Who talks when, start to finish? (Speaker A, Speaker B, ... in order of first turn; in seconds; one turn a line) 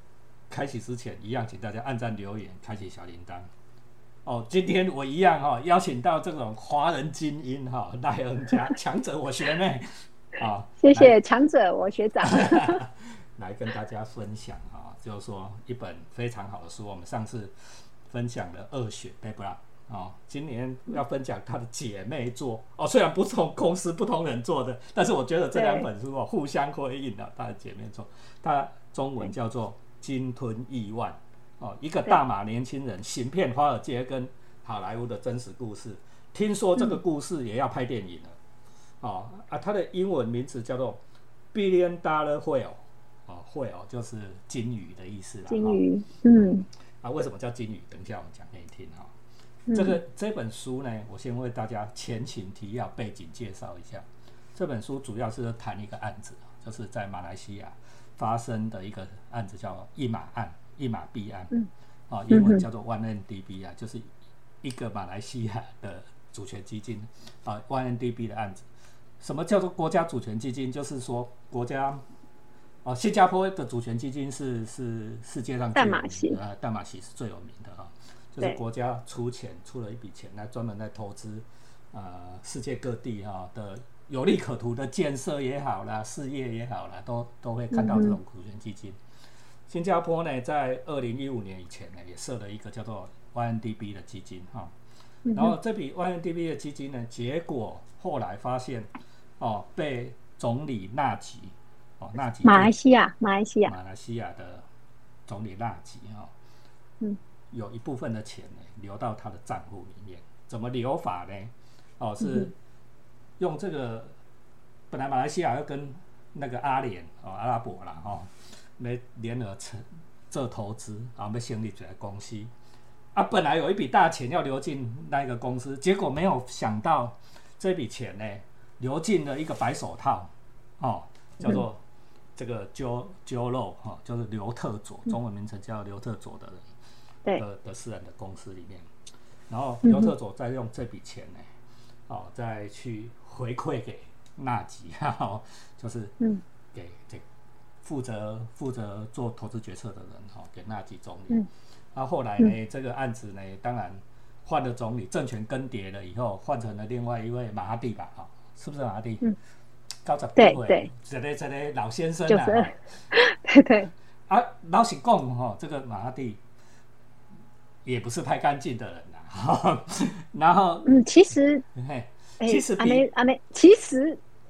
Speaker A: 0.5-3.5
Speaker A: 4.2-11.1
Speaker B: 10.8-12.8
Speaker A: 12.2-17.5
Speaker A: 18.1-38.4
Speaker B: 25.5-25.9
Speaker A: 39.0-41.0
Speaker A: 41.5-45.8
Speaker B: 45.5-46.6
Speaker A: 46.3-49.1
Speaker B: 49.7-50.0
Speaker A: 49.7-61.5
Speaker A: 62.1-64.1
Speaker B: 62.3-62.6
Speaker A: 64.6-68.7
Speaker A: 69.2-72.0
Speaker A: 72.8-89.0
Speaker B: 75.7-76.4
Speaker B: 87.7-88.2
Speaker A: 89.7-94.7
Speaker B: 95.2-95.5
Speaker A: 95.3-98.9
Speaker A: 99.4-102.7
Speaker B: 102.4-103.7
Speaker A: 103.6-104.6
Speaker A: 105.3-106.3
Speaker A: 107.5-112.5
Speaker B: 112.2-112.5
Speaker A: 113.4-114.1
Speaker A: 114.9-122.5
Speaker A: 123.1-131.8
Speaker A: 132.3-136.6
Speaker A: 137.3-138.9
Speaker A: 139.5-141.5
Speaker B: 139.8-140.1
Speaker A: 142.1-146.2
Speaker A: 146.7-147.2
Speaker A: 147.8-159.3
Speaker A: 160.0-162.8
Speaker B: 160.4-160.9
Speaker B: 162.3-163.9
Speaker A: 164.3-166.4
Speaker A: 167.8-170.9
Speaker B: 170.8-171.6
Speaker A: 171.7-173.1
Speaker B: 172.4-174.2